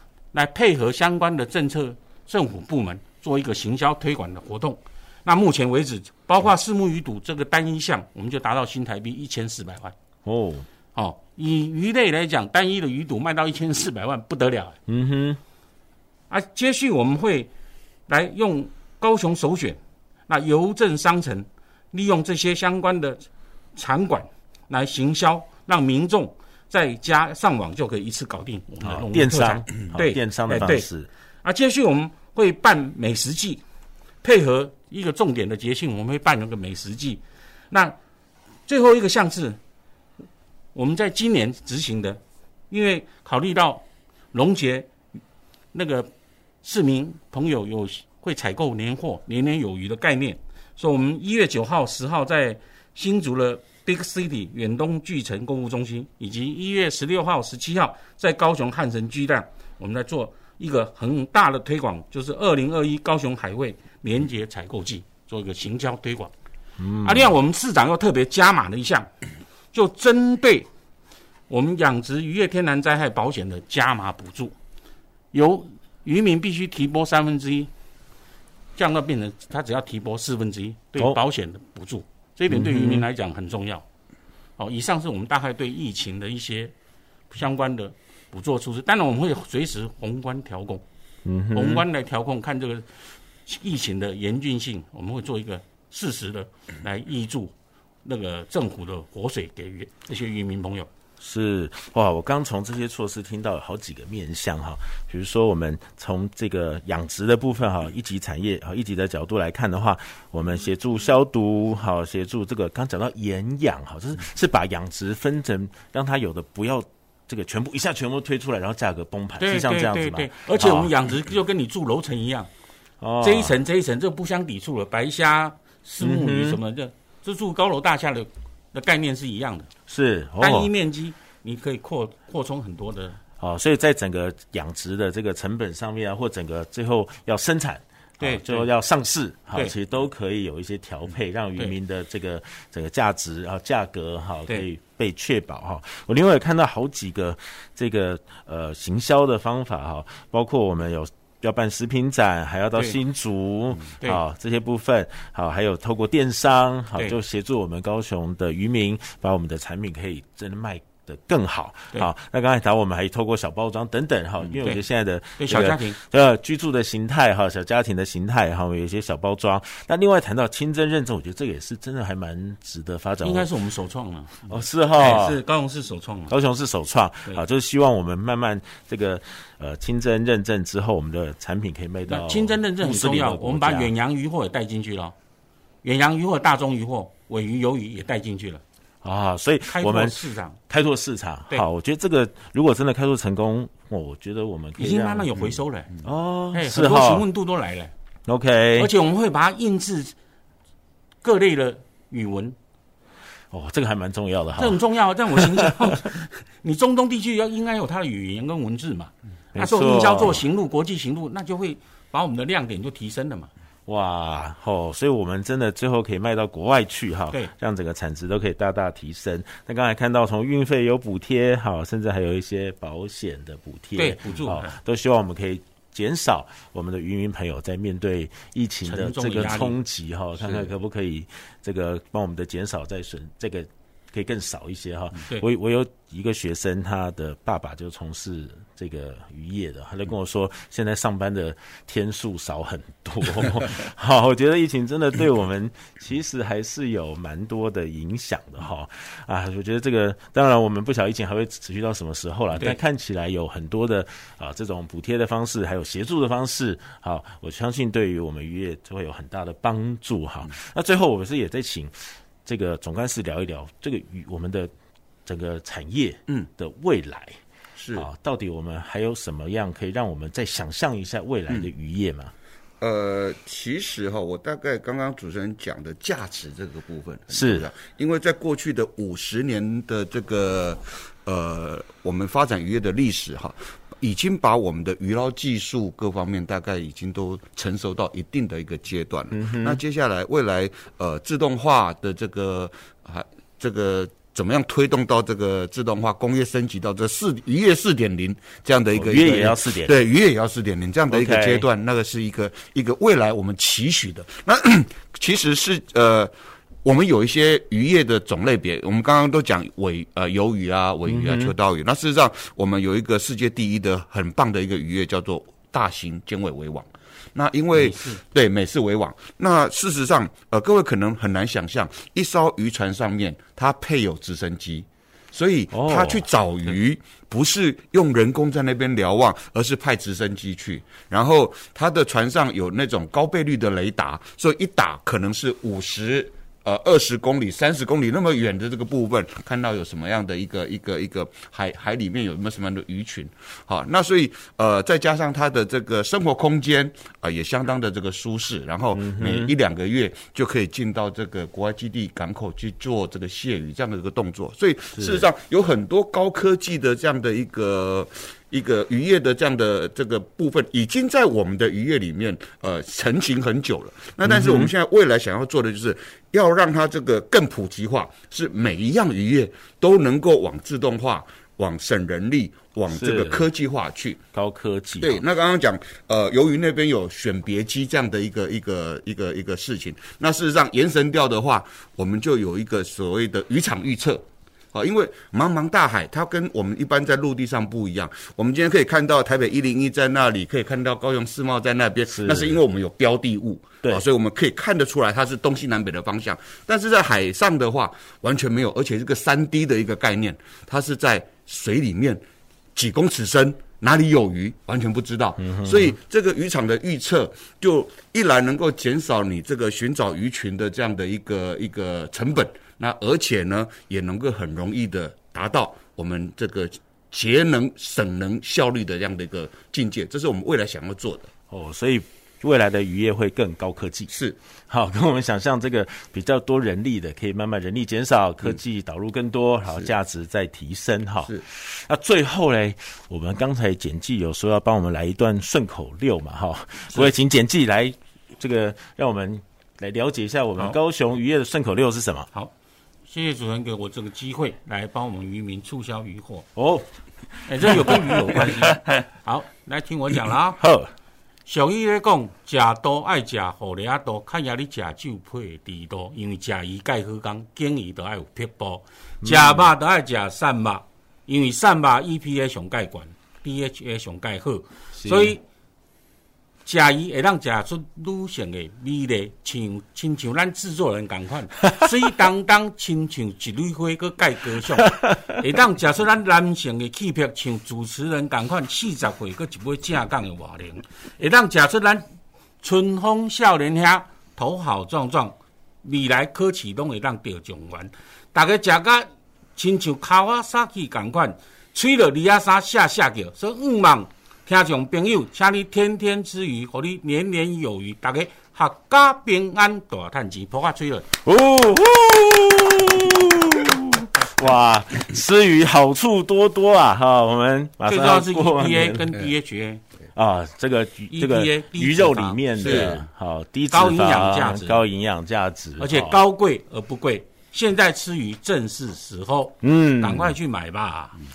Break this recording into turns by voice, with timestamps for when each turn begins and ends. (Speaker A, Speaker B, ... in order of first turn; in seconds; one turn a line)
Speaker A: 0.3-9.9
Speaker B: 10.2-10.7
Speaker A: 10.9-14.8
Speaker B: 14.9-15.4
Speaker A: 16.3-17.5
Speaker A: 18.1-30.9
Speaker B: 28.8-31.1
Speaker A: 31.4-33.6
Speaker A: 34.2-38.0
Speaker A: 38.7-39.6
Speaker A: 40.7-44.9
Speaker A: 45.7-46.1
Speaker A: 46.6-66.3
Speaker B: 66.8-67.3
Speaker A: 67.0-69.1
Speaker A: 69.7-70.7
Speaker A: 71.5-74.5
Speaker A: 75.3-77.7
Speaker A: 78.8-83.8
Speaker B: 82.5-83.0
Speaker A: 84.6-86.7
Speaker A: 87.3-90.8
Speaker B: 91.2-91.8
Speaker A: 91.5-92.9
Speaker A: 93.5-97.5
Speaker A: 98.0-100.9
Speaker B: 101.2-120.9
Speaker A: 119.4-122.5
Speaker B: 123.0-123.5
Speaker A: 123.2-129.7
Speaker B: 126.0-126.6
Speaker B: 129.9-130.7
Speaker A: 130.4-133.2
Speaker B: 133.4-173.5
Speaker A: 138.2-138.7
Speaker A: 165.4-166.0
Speaker A: 173.2-176.3
Speaker B: 174.5-175.4
Speaker B: 176.3-183.9
Speaker A: 182.1-185.1
Speaker A: 185.8-188.6
Speaker B: 189.0-195.4
Speaker A: 189.7-190.6
Speaker A: 194.8-195.9
Speaker B: 196.0-197.3
Speaker A: 196.5-197.9
Speaker B: 198.3-198.9
Speaker A: 198.8-200.1
Speaker A: 201.2-202.6
Speaker B: 203.5-205.9
Speaker A: 204.6-213.5
Speaker B: 209.6-210.4
Speaker B: 213.9-264.7
Speaker A: 223.9-224.7
Speaker A: 228.8-229.8
Speaker B: 265.3-267.4
Speaker C: 267.8-268.1
Speaker B: 267.9-272.3
Speaker C: 272.8-306.3
Speaker B: 277.3-277.7
Speaker B: 289.3-289.8
Speaker B: 298.9-300.0
Speaker B: 301.1-301.6
Speaker C: 306.8-374.2
Speaker B: 311.1-311.5
Speaker A: 317.7-318.2
Speaker B: 325.7-326.2
Speaker B: 348.9-349.5
Speaker B: 354.9-355.3
Speaker B: 364.2-364.7
Speaker B: 372.9-373.5
Speaker B: 374.3-375.2
Speaker C: 375.0-402.2
Speaker B: 392.1-392.6
Speaker C: 402.8-421.3
Speaker B: 405.4-405.9
Speaker B: 421.5-424.1
Speaker C: 424.1-424.4
Speaker B: 424.7-442.3
Speaker A: 443.1-446.5
Speaker B: 446.6-449.0
Speaker A: 447.5-450.6
Speaker B: 450.6-450.9
Speaker A: 451.4-465.4
Speaker B: 459.2-459.7
Speaker B: 465.0-465.4
Speaker A: 466.7-482.1
Speaker A: 482.6-501.1
Speaker B: 501.2-509.2
Speaker A: 507.9-509.8
Speaker B: 510.1-516.2
Speaker A: 511.1-513.0
Speaker C: 512.6-513.0
Speaker A: 513.7-514.8
Speaker A: 515.8-521.1
Speaker B: 519.6-520.3